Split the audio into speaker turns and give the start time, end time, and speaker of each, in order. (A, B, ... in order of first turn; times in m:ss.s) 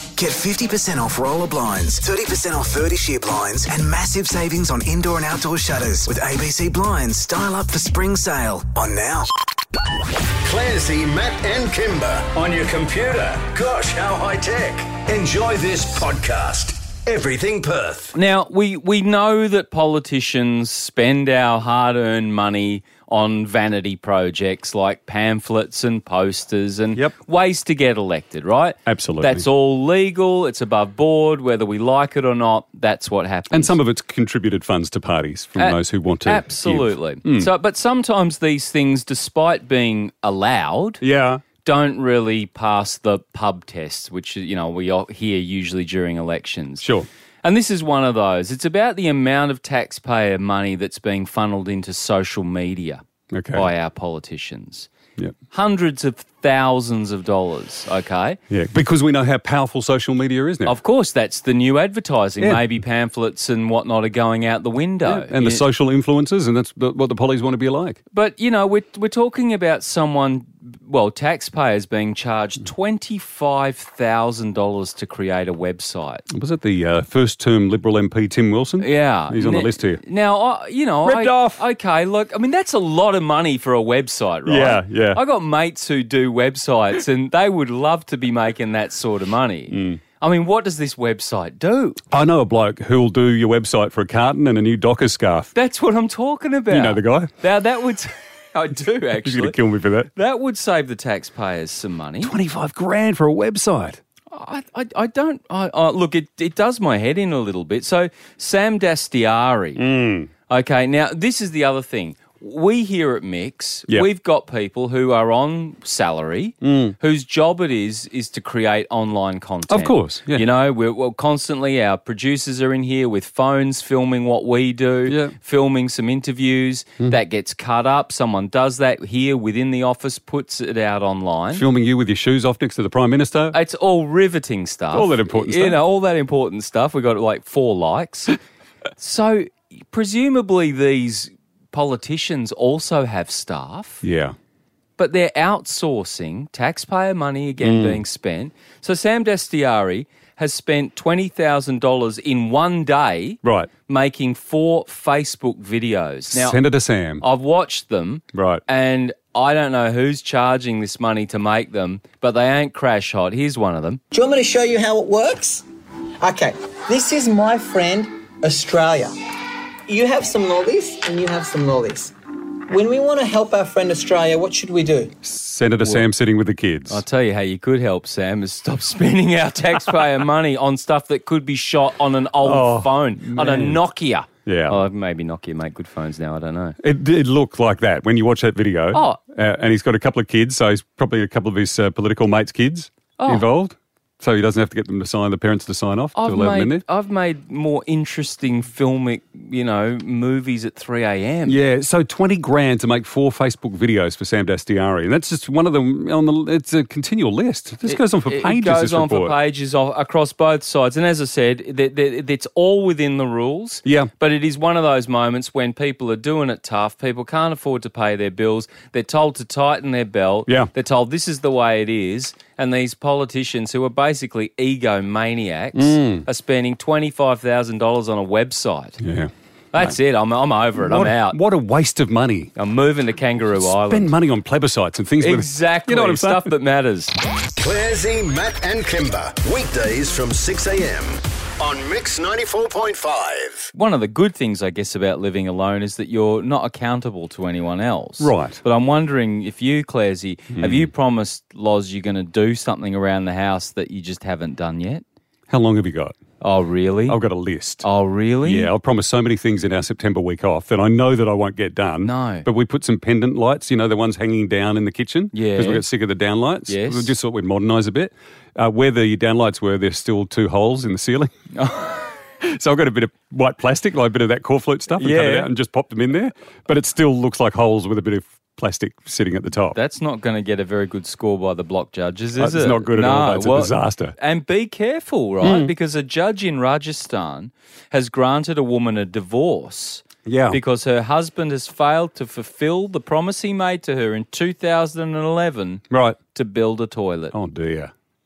0:00.2-0:09.3 A
0:10.4-0:18.1 B
0:18.1-0:33.8 C
0:28.8-0:29.4 D
0:33.5-0:37.5 D
0:35.6-0:41.0 C
0:41.0-0:41.4 D
0:41.6-0:46.8 C
0:46.8-0:47.1 D
0:47.4-0:54.9 C
0:53.3-0:53.6 D
0:55.5-0:58.4 C
0:58.5-1:00.8 D
1:00.6-1:05.6 C
1:05.0-1:08.0 D
1:08.1-1:16.2 C
1:16.3-1:20.0 D
1:18.8-1:32.0 C
1:21.0-1:21.6 D
1:24.4-1:25.2 D
1:29.7-1:30.0 D
1:32.1-1:35.5 D
1:35.5-1:39.6 C
1:36.7-1:37.3 D
1:39.2-1:40.1 D
1:40.1-1:42.3 C
1:42.2-1:44.0 D
1:44.3-1:49.8 C
1:49.8-1:50.3 D
1:50.5-2:11.6 C
1:56.6-1:56.9 D
1:59.7-2:00.4 D
2:05.1-2:05.3 D
2:11.5-2:13.6 D
2:13.5-2:18.4 C
2:14.9-2:15.8 D
2:19.0-2:24.0 C
2:24.0-2:24.3 D
2:25.0-2:36.6 C
2:27.6-2:28.0 D
2:33.4-2:33.7 D
2:36.3-2:37.2 D
2:37.2-2:44.0 C
2:38.3-2:38.6 D
2:44.1-2:45.6 E
2:46.2-2:49.2 E
2:49.9-2:52.1 E
2:52.7-2:55.1 E
2:55.2-2:57.0 D
2:56.9-3:06.8 C
3:02.4-3:03.8 D
3:04.4-3:04.8 D
3:06.8-3:16.8 D
3:08.9-3:09.2 C
3:13.2-3:13.5 C
3:16.1-3:21.6 C
3:21.4-3:29.3 D
3:27.8-3:49.0 C
3:33.8-3:34.1 D
3:45.7-3:46.2 D
3:49.0-3:49.9 D
3:49.7-3:51.4 C
3:50.8-3:52.5 D
3:52.6-3:54.1 C
3:53.6-3:56.4 D
3:55.2-3:57.1 C
3:57.6-4:03.7 B
4:03.7-4:15.0 C
4:08.2-4:08.6 D
4:10.5-4:10.9 D
4:15.5-4:16.1 D
4:16.4-4:17.2 C
4:17.1-4:17.8 D
4:17.8-4:18.7 C
4:18.4-4:31.3 D
4:22.0-4:22.4 C
4:25.3-4:25.8 C
4:26.7-4:27.2 C
4:31.5-4:32.0 C
4:32.4-4:39.8 D
4:35.0-4:35.5 C
4:39.7-4:55.8 C
4:42.4-4:44.1 D
4:45.4-4:45.7 D
4:50.2-4:50.6 D
4:55.9-4:56.2 D
4:56.3-4:57.3 C
4:57.3-4:57.9 D